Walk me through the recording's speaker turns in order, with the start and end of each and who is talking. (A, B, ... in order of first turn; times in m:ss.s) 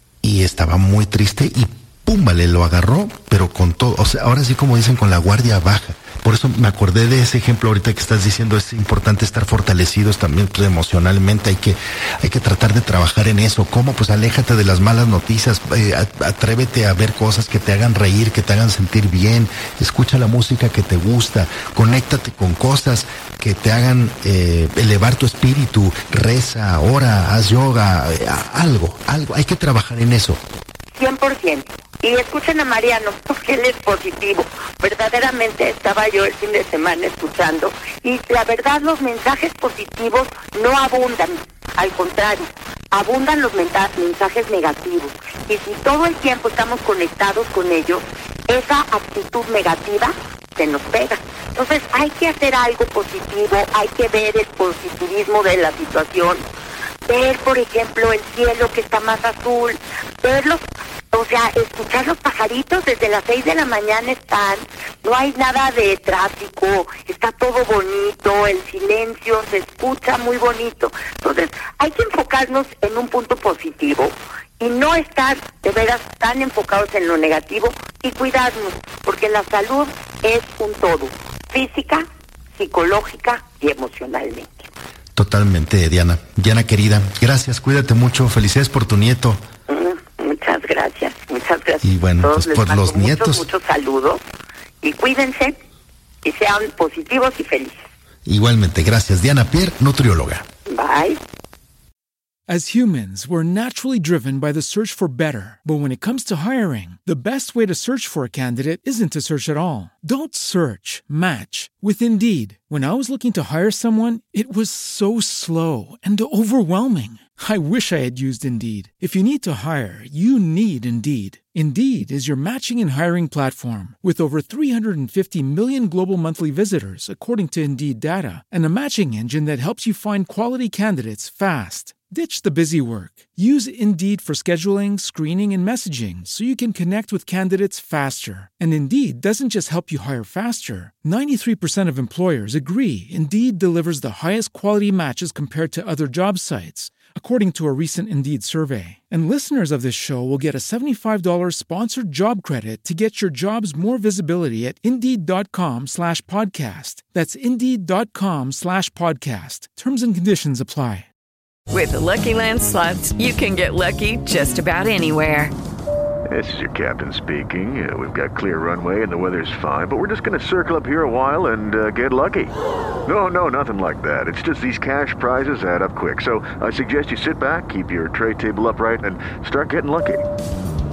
0:00.2-0:30.4 A
0:31.0-0:56.4 B
0:57.1-1:22.0 B
1:22.6-1:24.7 B
1:25.2-1:29.4 A
1:29.7-1:34.2 B
1:31.8-1:33.5 A
1:34.8-1:35.6 B
1:36.2-1:37.8 B
1:38.3-1:40.4 A
1:40.7-1:41.2 B
1:42.5-2:41.1 C
2:41.7-2:45.5 D
2:46.3-2:52.5 E
2:53.1-3:00.2 E